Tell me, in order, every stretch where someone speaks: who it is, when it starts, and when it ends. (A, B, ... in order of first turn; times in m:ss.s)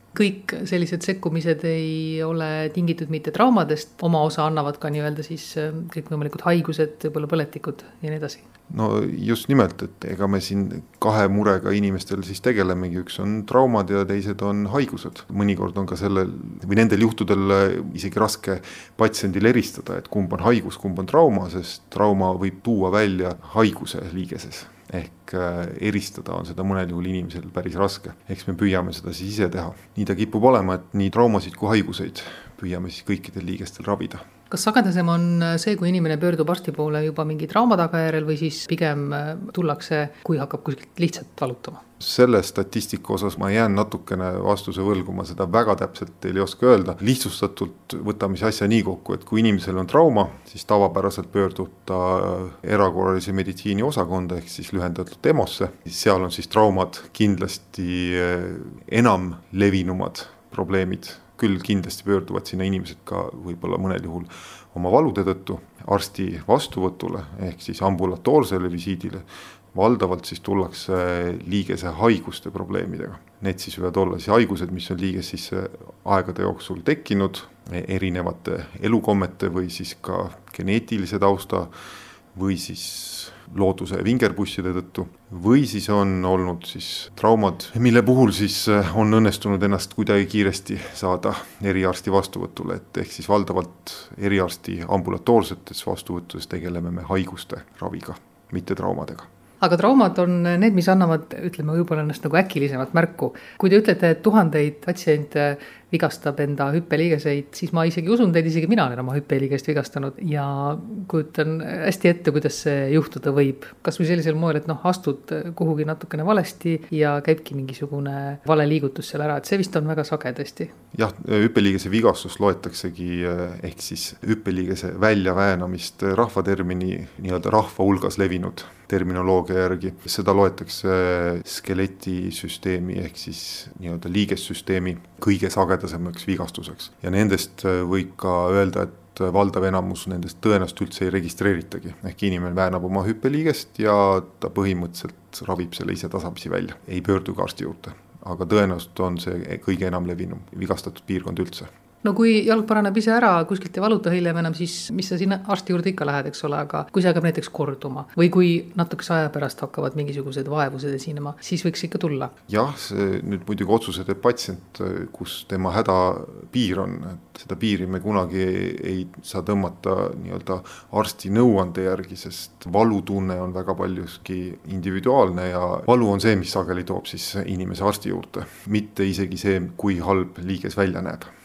0:00.1-0:08.4 A
0:08.7-0:34.2 B
0:34.5-0:41.8 A
0:42.0-1:21.7 B
1:22.3-1:39.3 B
1:39.6-2:00.7 A
2:00.9-2:31.7 B
2:32.0-2:42.3 A
2:42.5-3:01.3 B